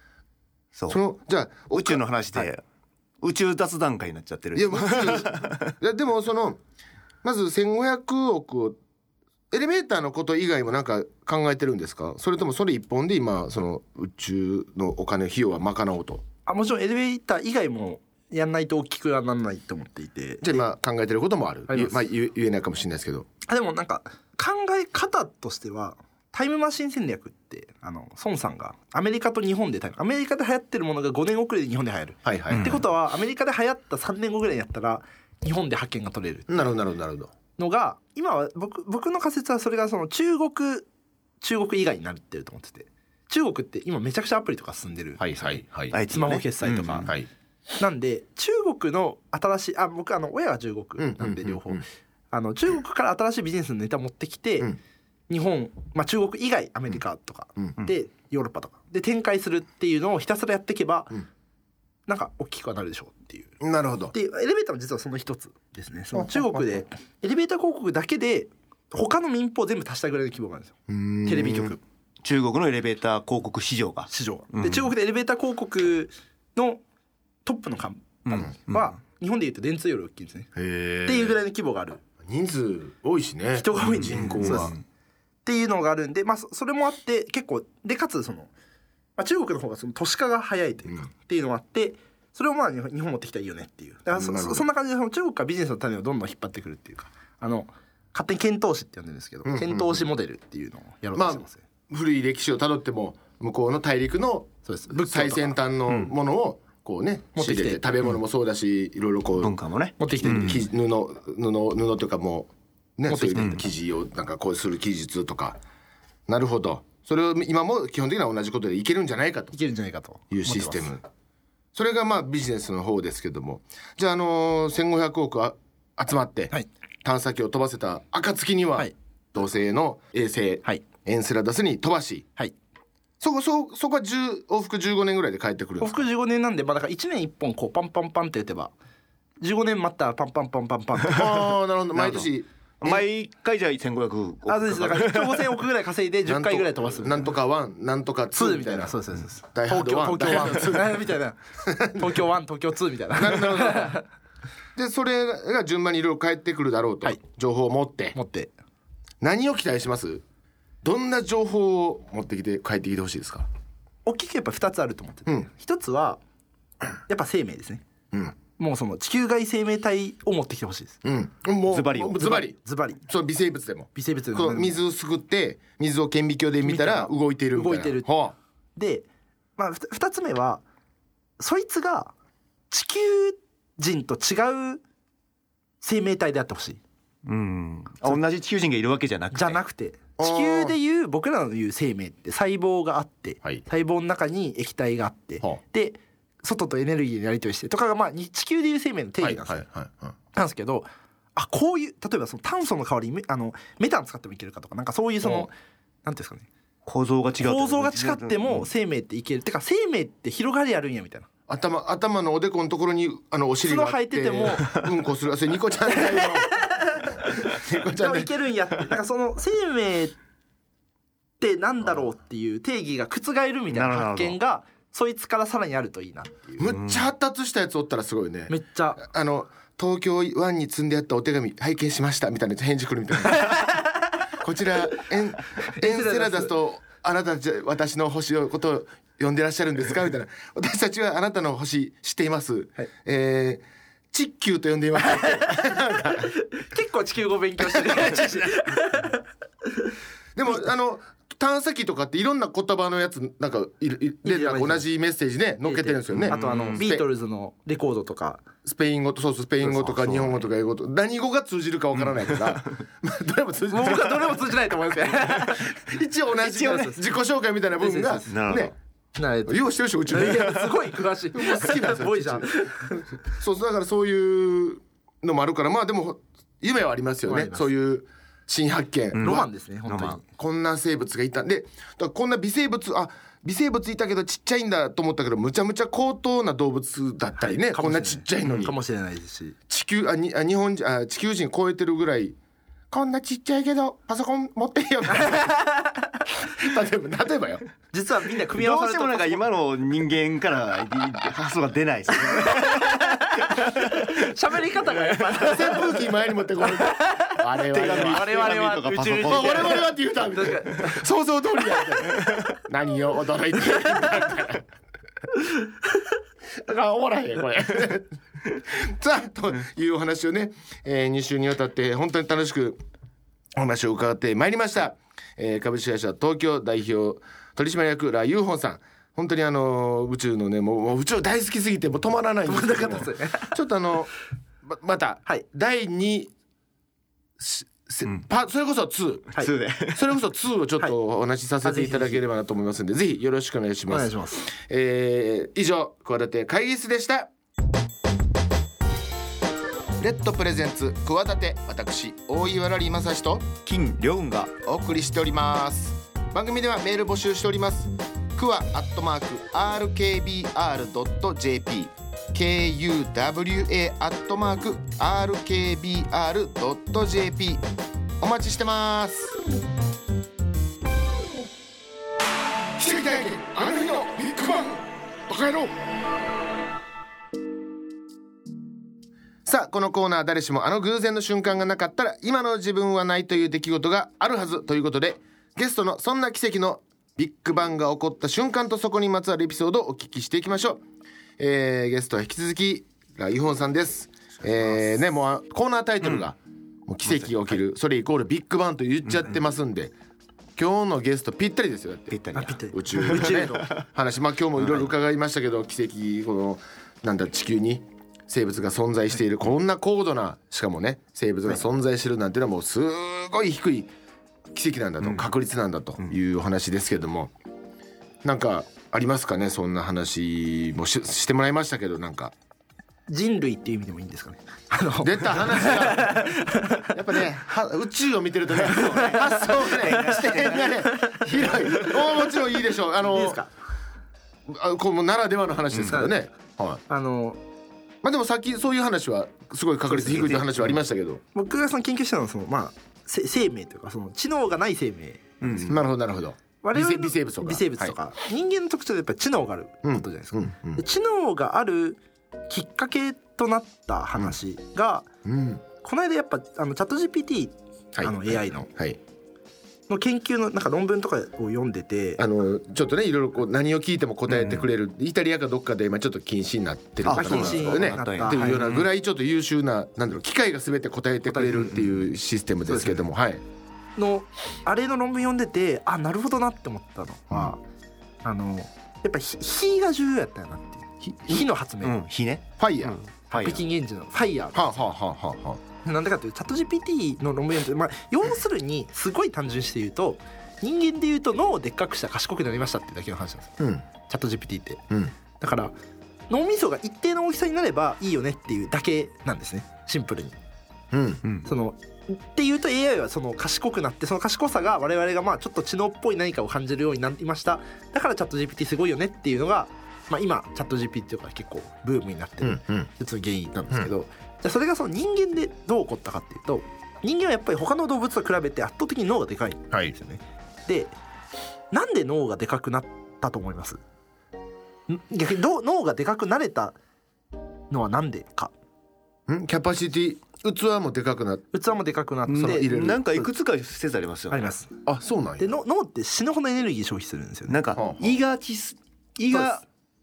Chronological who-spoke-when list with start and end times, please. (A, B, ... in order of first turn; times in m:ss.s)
0:00.9-0:02.5 A
0:01.7-0:02.6 B
0:03.2-0:05.7 B
0:04.5-0:06.6 A
0:07.2-0:08.8 A
0:09.5-0:16.2 A
0:16.4-0:20.6 C
0:20.4-0:23.3 A
0:21.7-0:22.0 C
0:23.5-0:36.7 C
0:32.2-0:32.8 A
0:32.5-0:32.8 B
0:36.5-0:37.3 A
0:37.6-0:40.9 C
0:41.4-0:45.4 C
0:45.2-0:45.9 A
0:45.9-0:47.1 B
0:46.1-0:47.1 C
0:47.8-0:54.7 C
0:51.0-0:51.8 A
0:55.3-1:01.2 C
1:02.1-1:03.6 C
1:03.6-1:04.1 A
1:04.1-1:11.8 C
1:06.1-1:06.8 A
1:10.9-1:11.8 A
1:12.2-1:14.9 B
1:14.1-1:16.8 C
1:17.4-1:20.5 C
1:18.3-1:18.9 B
1:20.6-1:21.4 A
1:21.0-1:22.0 C
1:22.2-1:24.7 A
1:23.6-1:24.8 C
1:24.0-1:24.7 B
1:25.4-1:28.5 C
1:29.2-1:41.6 C
1:34.1-1:34.6 A
1:39.4-1:40.0 A
1:41.1-1:49.5 A
1:44.6-1:45.6 C
1:47.4-1:48.0 C
1:49.4-1:50.6 B
1:50.0-1:50.6 C
1:50.2-1:55.6 A
1:53.1-1:53.6 C
1:56.3-1:59.5 A
1:59.5-2:00.9 C
2:00.3-2:01.0 A
2:01.7-2:12.3 A
2:13.2-2:16.0 A
2:15.8-2:18.7 C
2:19.4-2:21.4 C
2:21.1-2:23.0 A
2:22.0-2:22.2 B
2:22.8-2:25.6 B
2:24.5-2:27.3 C
2:26.2-2:29.0 A
2:28.3-2:34.0 C
2:29.5-2:31.0 A
2:31.6-2:32.2 A
2:33.1-2:34.0 A
2:34.8-2:38.2 A
2:38.1-2:38.5 C
2:39.2-2:40.2 A
2:40.8-2:43.5 A
2:44.0-2:46.2 C
2:47.1-2:47.8 C
2:48.1-2:48.4 A
2:48.6-2:51.0 C
2:51.0-2:58.3 A
2:51.7-2:52.4 B
2:52.1-2:53.0 C
2:53.9-2:54.8 C
2:56.6-2:58.1 C
2:58.8-3:00.6 C
3:01.4-3:02.1 C
3:02.7-3:04.8 C
3:05.8-3:06.8 C
3:07.2-3:09.6 B
3:09.3-3:19.6 C
3:10.2-3:10.7 A
3:19.2-3:20.1 A
3:20.3-3:25.5 C
3:26.0-3:26.5 C
3:26.8-3:28.7 B
3:27.4-3:31.3 C
3:31.5-3:38.3 A
3:33.6-3:34.8 C
3:36.1-3:37.1 C
3:37.9-3:40.2 C
3:41.4-3:46.7 C
3:43.7-3:44.4 B
3:46.6-3:53.7 A
3:46.7-3:47.0 B
3:48.5-3:49.0 C
3:54.4-4:06.3 A
3:55.7-3:56.5 C
4:05.1-4:09.2 C
4:07.7-4:08.5 A
4:10.3-4:17.0 A
4:14.2-4:14.8 C
4:15.6-4:18.4 C
4:16.1-4:16.8 B
4:18.6-4:24.4 A
4:19.8-4:20.4 B
4:22.1-4:22.5 B
4:23.7-4:25.8 C
4:25.3-4:28.7 A
4:26.4-4:27.0 C
4:27.8-4:28.4 C
4:28.3-4:28.7 B
4:29.2-4:33.1 C
4:29.4-4:30.7 A
4:31.3-4:39.4 A
4:37.2-4:37.7 C
4:39.1-4:40.2 B
4:39.2-4:40.2 C
4:40.3-4:48.7 A
4:47.4-4:49.6 C
4:49.7-4:52.4 A
4:52.9-4:55.7 A
4:55.2-4:55.9 C
4:56.4-4:57.6 A
4:57.9-4:59.4 C
4:58.5-5:04.3 B
5:02.3-5:06.0 C
5:05.3-5:08.4 A
5:06.8-5:11.0 C
5:07.7-5:09.9 B
5:09.2-5:14.7 A
5:16.6-5:22.8 A
5:23.6-5:34.1 A
5:32.4-5:33.5 C
5:34.6-5:36.3 A
5:37.4-5:39.4 A
5:39.4-5:40.0 B
5:39.9-5:47.3 A
5:41.6-5:42.2 C
5:43.9-5:44.5 C
5:50.0-5:53.5 A
5:53.6-5:54.5 B
5:54.6-6:07.6 A
6:08.2-6:09.4 A
6:12.8-6:15.7 A
6:19.4-6:30.8 A
6:31.4-6:39.9 A
6:37.0-6:37.4 B
6:40.6-6:53.9 A
6:42.1-6:43.7 B
6:42.3-6:43.7 C
6:44.6-6:44.9 B
6:54.5-6:57.3 A
6:58.2-7:02.3 A
7:03.1-7:07.0 C
7:05.0-7:06.2 A
7:06.9-7:13.4 A
7:08.7-7:11.9 C
7:09.0-7:10.9 B
7:13.0-7:13.5 C
7:14.5-7:16.8 A
7:15.7-7:16.0 B
7:16.9-7:17.4 C
7:18.0-7:21.2 A
7:20.0-7:20.6 B
7:21.3-7:25.3 C
7:25.4-7:25.8 B
7:25.6-7:27.9 A
7:26.6-7:35.1 C
7:29.8-7:30.8 A
7:35.2-7:35.6 A
7:35.8-7:38.7 C
7:37.9-7:39.0 A
7:39.9-7:42.2 C
7:42.2-7:53.4 A
7:44.3-7:44.6 B
7:47.0-7:48.9 B
7:47.1-7:48.8 C
7:51.3-7:51.7 C
7:52.7-7:53.0 C
7:54.0-7:57.6 C
7:58.2-8:02.0 C
8:01.0-8:01.4 A
8:01.8-8:03.6 B
8:02.6-8:03.0 A
8:03.3-8:04.8 C
8:04.5-8:05.6 A
8:05.8-8:14.8 C
8:13.6-8:13.8 A
8:15.4-8:15.7 C
8:16.3-8:20.4 C
8:20.9-8:21.2 A
8:21.4-8:40.9 C
8:32.4-8:32.9 A
8:41.7-8:43.8 C
8:44.9-8:46.8 C
8:47.7-8:48.5 C
8:49.3-8:51.5 A
8:51.5-8:53.3 C
8:52.3-8:54.5 B
8:52.4-8:53.0 A
8:54.3-8:54.7 C
8:54.8-8:55.6 A
8:55.4-8:57.6 C
8:57.5-8:59.6 B
8:57.8-8:58.2 A